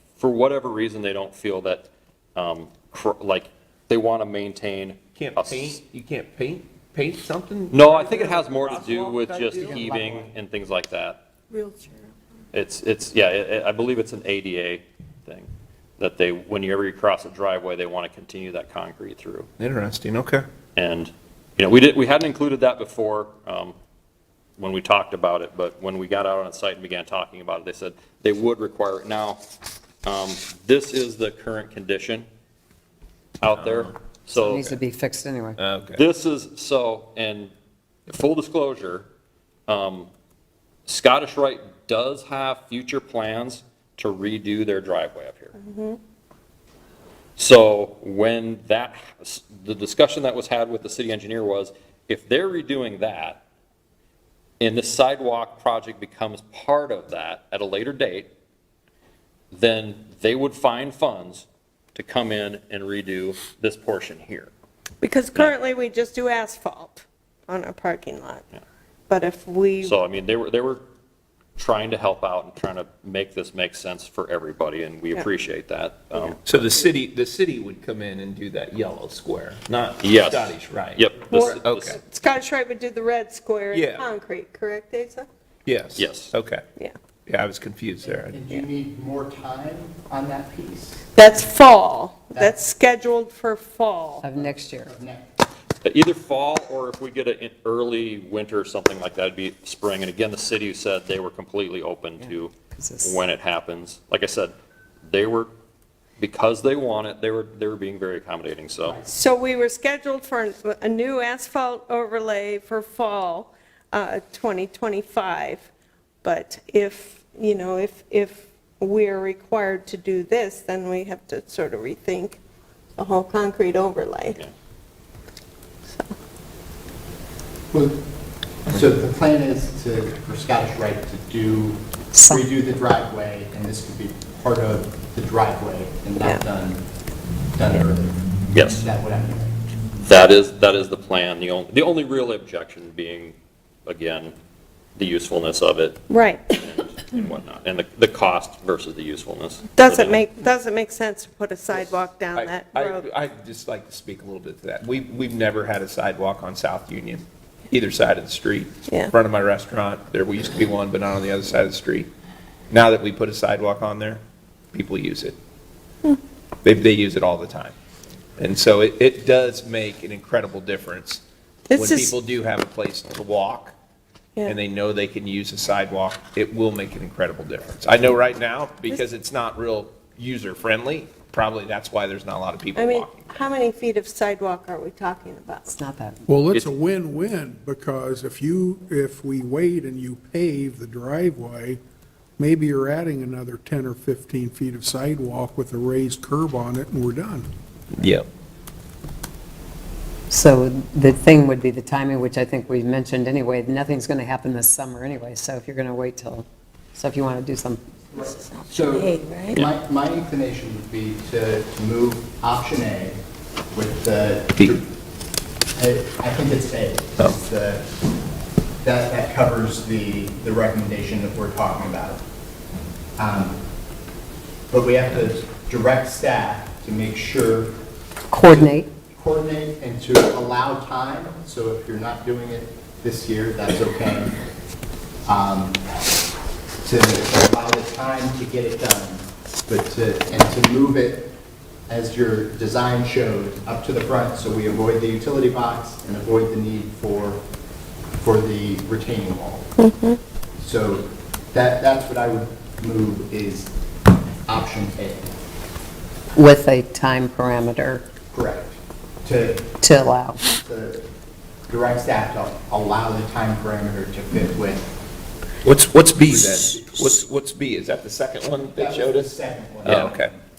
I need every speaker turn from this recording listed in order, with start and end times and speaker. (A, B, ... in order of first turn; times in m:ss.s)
0:00.2-0:05.8 A
0:05.1-0:09.9 B
0:07.7-0:11.2 A
0:09.6-0:10.2 C
0:11.5-0:11.9 D
0:12.5-0:19.5 A
0:19.6-0:20.4 B
0:20.8-0:23.8 A
0:24.6-0:29.4 A
0:30.0-0:32.3 A
0:33.4-0:34.8 A
0:33.4-0:33.9 B
0:34.3-0:35.6 C
0:35.6-0:36.0 B
0:35.9-0:37.5 A
0:38.1-0:39.1 A
0:39.7-0:40.1 A
0:40.9-0:45.6 A
0:45.6-0:46.0 D
0:47.4-0:53.4 A
0:54.6-0:58.3 A
0:59.5-1:04.5 A
1:05.0-1:08.4 D
1:09.1-1:10.0 D
1:09.8-1:10.8 A
1:11.6-1:16.6 A
1:16.4-1:22.0 B
1:20.0-1:22.0 A
1:21.3-1:25.3 D
1:23.7-1:24.0 B
1:25.6-1:26.6 B
1:26.0-1:26.3 A
1:27.2-1:28.4 B
1:28.0-1:31.0 E
1:31.1-1:34.2 D
1:34.2-1:34.9 C
1:34.4-1:35.2 E
1:35.8-1:44.5 A
1:42.7-1:43.2 C
1:45.1-1:45.5 A
1:46.2-1:49.0 A
1:49.0-1:55.7 D
1:56.2-2:02.4 D
2:03.0-2:04.4 D
2:05.9-2:06.1 D
2:08.7-2:16.8 E
2:12.1-2:12.4 C
2:17.5-2:18.2 E
2:18.5-2:18.8 A
2:18.7-2:19.5 E
2:20.0-2:23.4 A
2:23.9-2:24.3 A
2:25.0-2:26.0 A
2:26.1-2:26.5 D
2:26.5-2:30.2 A
2:29.8-2:33.1 D
2:31.9-2:42.1 B
2:38.9-2:39.1 D
2:42.7-2:45.4 B
2:46.6-2:47.7 B
2:48.4-2:53.7 B
2:51.7-2:52.1 D
2:54.4-3:03.5 B
3:02.7-3:05.7 D
3:05.7-3:06.2 C
3:06.3-3:11.8 F
3:12.4-3:17.5 F
3:17.9-3:18.3 B
3:20.3-3:27.8 C
3:28.2-3:29.6 D
3:28.5-3:33.2 E
3:33.7-3:34.8 E
3:35.8-3:37.8 E
3:38.8-3:42.2 E
3:43.2-3:43.6 E
3:44.7-3:47.7 E
3:48.3-3:48.9 C
3:49.1-3:54.3 E
3:55.2-3:55.8 E
3:56.8-4:01.3 E
4:01.9-4:07.4 E
4:08.2-4:09.7 E
4:09.8-4:10.2 D
4:10.6-4:13.7 E
4:14.4-4:15.3 E
4:16.4-4:18.0 C
4:18.3-4:19.7 E
4:19.8-4:20.4 C
4:20.5-4:21.0 E
4:21.7-4:24.8 E
4:25.6-4:30.3 B
4:28.8-4:30.4 E
4:29.9-4:30.1 A